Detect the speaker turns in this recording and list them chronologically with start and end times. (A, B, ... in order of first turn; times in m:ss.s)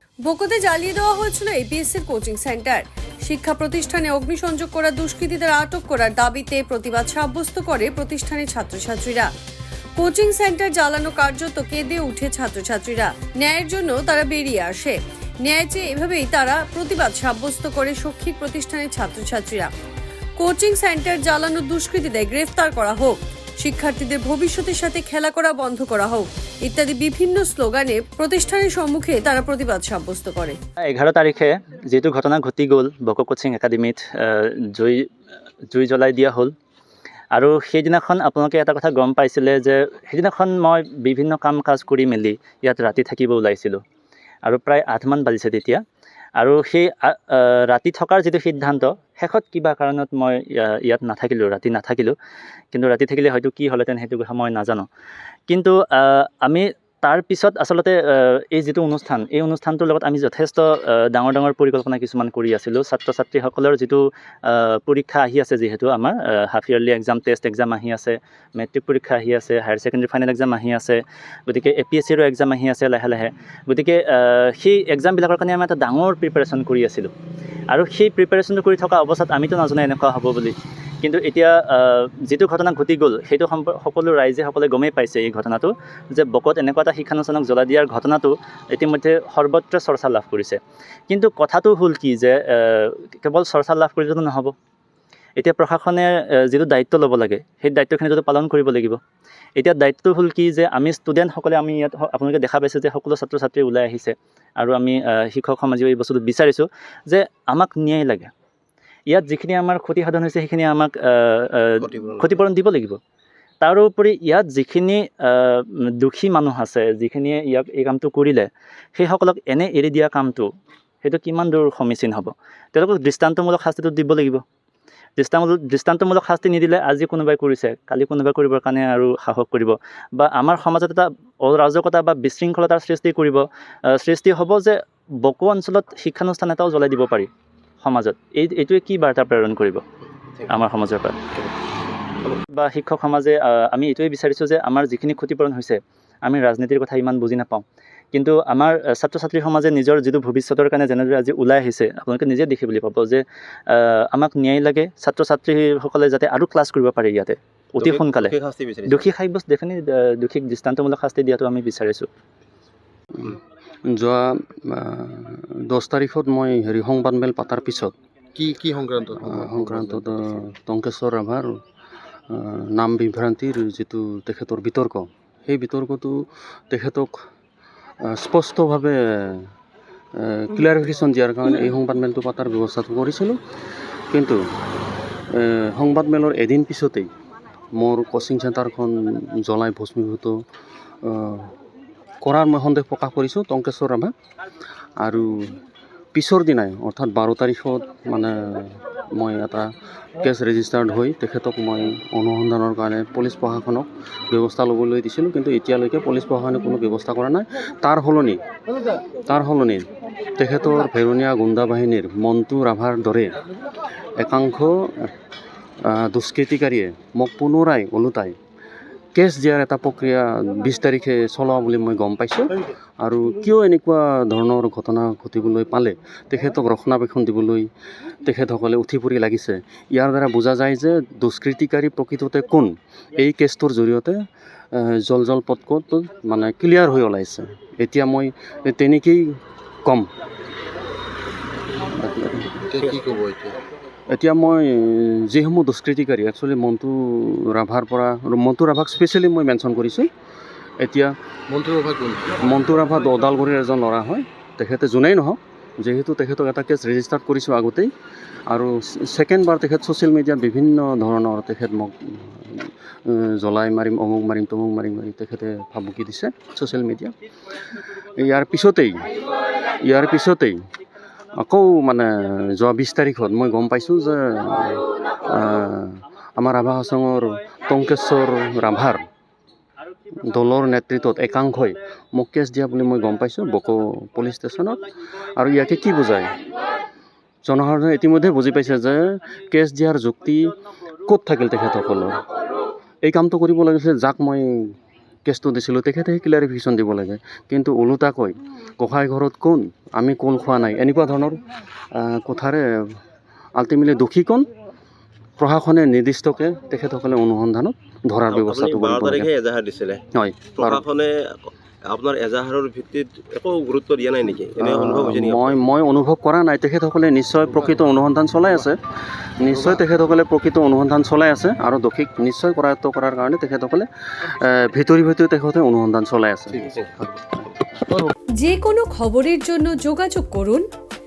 0:00.2-0:09.3 A
0:10.0-0:19.7 A
0:20.4-0:30.6 A
0:30.9-0:35.0 B
0:35.7-0:36.5 B
0:37.3-0:43.8 B
0:44.4-0:45.8 B
0:46.4-0:52.2 B
0:52.7-0:54.9 B
0:55.5-1:17.1 B
1:17.7-1:34.5 B
1:35.4-1:39.0 B
1:39.6-1:48.3 B
1:49.1-1:53.0 B
1:51.8-1:52.4 C
1:53.6-2:00.5 B
2:01.0-2:04.4 B
2:05.2-2:17.3 B
2:17.8-2:19.8 B
2:20.5-2:21.2 B
2:22.5-2:38.4 B
2:37.8-2:39.1 C
2:38.9-2:42.1 B
2:43.9-2:47.9 D
2:48.4-2:50.3 E
2:49.2-2:51.6 D
2:52.3-2:57.2 D
2:58.0-2:59.5 D
3:00.2-3:03.4 D
3:04.1-3:04.4 D
3:05.3-3:07.1 D
3:07.8-3:10.4 D
3:11.0-3:11.5 D
3:12.2-3:14.1 D
3:15.0-3:15.6 D
3:16.1-3:28.4 D
3:29.3-3:29.8 D
3:30.4-3:33.3 D
3:34.2-3:35.1 D
3:35.8-3:38.4 D
3:39.2-3:42.5 D
3:43.0-3:47.7 D
3:48.2-3:54.2 D
3:54.7-4:00.1 D
4:02.0-4:02.5 D
4:02.6-4:03.6 E
4:04.1-4:10.1 D
4:10.8-4:11.2 D
4:11.5-4:12.4 E
4:12.4-4:17.9 D
4:18.5-4:27.1 D
4:28.2-4:29.1 D
4:29.8-4:30.6 D
4:31.4-4:39.0 D
4:40.3-4:44.8 D
4:45.4-4:46.3 D
4:47.4-4:50.5 D
4:51.1-4:52.2 D
4:53.0-4:54.8 D
4:55.3-5:01.4 D
5:01.9-5:03.0 D
5:03.6-5:04.4 D
5:05.4-5:09.3 D
5:08.3-5:10.0 C
5:10.1-5:10.8 D
5:10.5-5:15.6 C
5:14.6-5:18.8 D
5:19.4-5:26.8 D
5:28.4-5:30.7 A